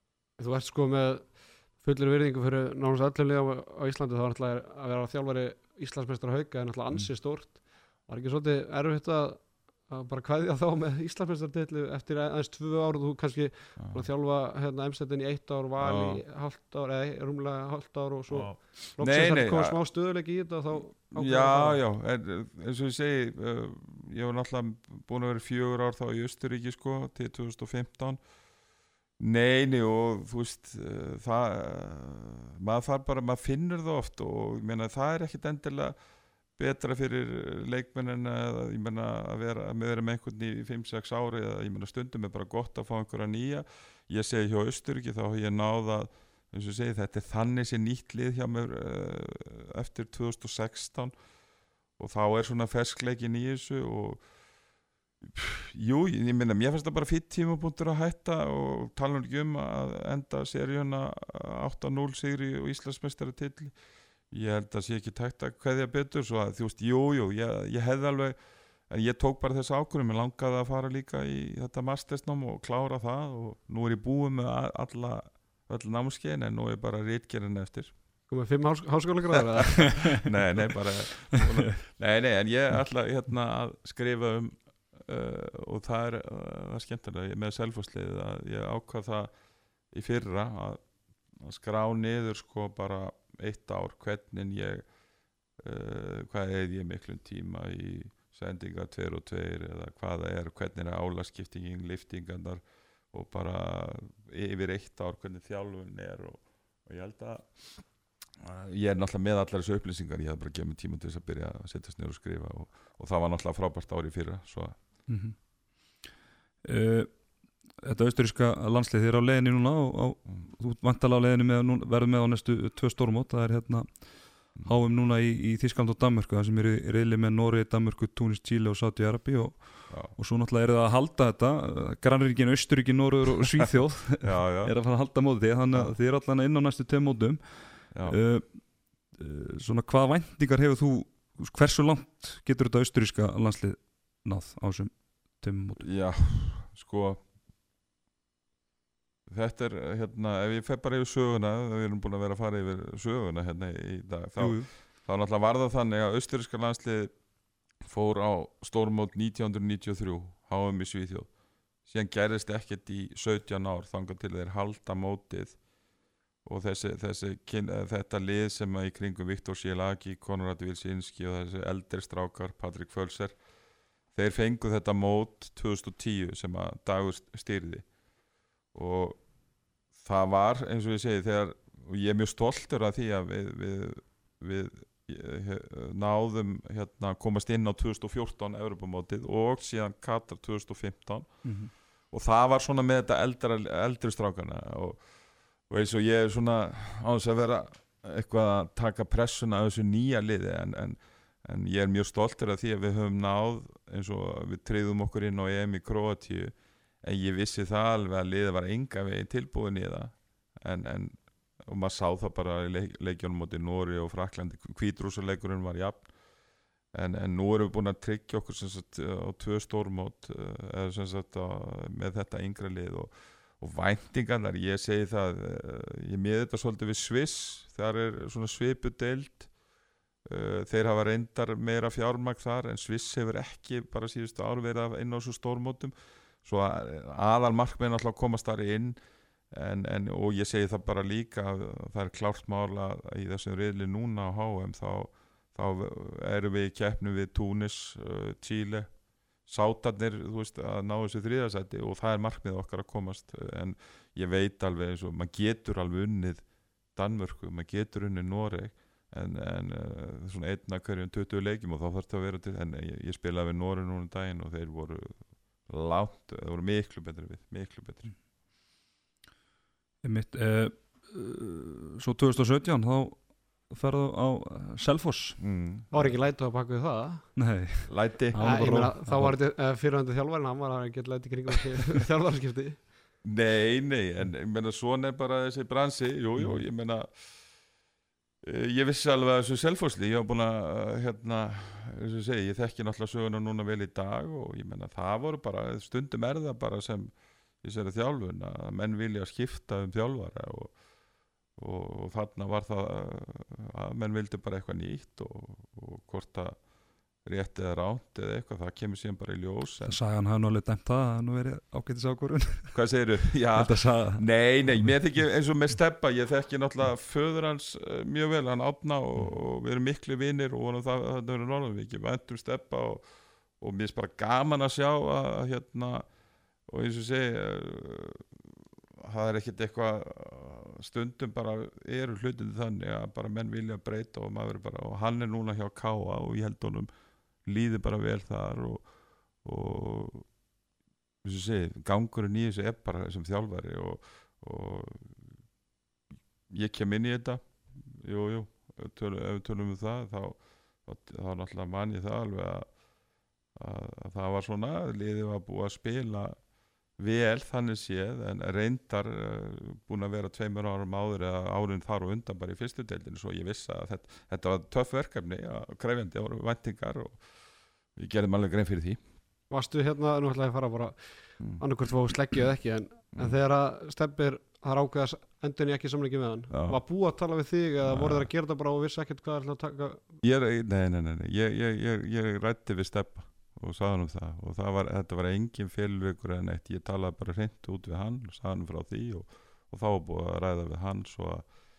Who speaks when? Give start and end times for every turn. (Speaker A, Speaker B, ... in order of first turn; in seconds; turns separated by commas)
Speaker A: 0.4-21.8, Speaker B: 13.8-14.0, Speaker B: 15.8-16.2, Speaker B: 18.3-19.8, Speaker B: 20.7-28.2, Speaker B: 29.2-36.0, Speaker B: 36.6-51.1, Speaker B: 52.0-54.3, Speaker B: 55.2-63.8, Speaker B: 64.3-77.9, Speaker A: 78.3-80.2, Speaker B: 80.0-89.3, Speaker B: 89.9-94.9, Speaker B: 95.6-114.8, Speaker C: 115.1-116.0, Speaker C: 116.6-146.1, Speaker B: 129.9-130.2, Speaker B: 134.2-134.8, Speaker B: 135.7-136.0, Speaker B: 137.9-138.2, Speaker B: 145.8-147.2, Speaker B: 149.3-157.2, Speaker C: 154.4-154.7, Speaker B: 157.8-165.6, Speaker B: 166.4-173.4, Speaker B: 174.1-177.9, Speaker B: 178.7-179.2, Speaker B: 179.9-216.1, Speaker C: 191.4-191.7, Speaker B: 216.9-229.5, Speaker B: 230.2-238.9, Speaker B: 239.5-268.1, Speaker C: 270.0-275.5, Speaker B: 275.4-275.9, Speaker A: 275.9-277.4, Speaker C: 277.4-279.4, Speaker B: 277.9-278.8, Speaker A: 278.4-282.8, Speaker B: 283.2-287.7, Speaker C: 286.4-286.6, Speaker B: 288.4-300.8, Speaker B: 301.5-310.0, Speaker C: 309.8-315.1, Speaker B: 312.7-326.1, Speaker B: 326.6-336.9, Speaker B: 337.4-340.4, Speaker B: 341.2-345.3, Speaker B: 346.5-352.8, Speaker B: 353.5-369.0, Speaker A: 369.5-380.1, Speaker B: 376.5-376.8, Speaker B: 377.8-378.3, Speaker B: 380.2-391.6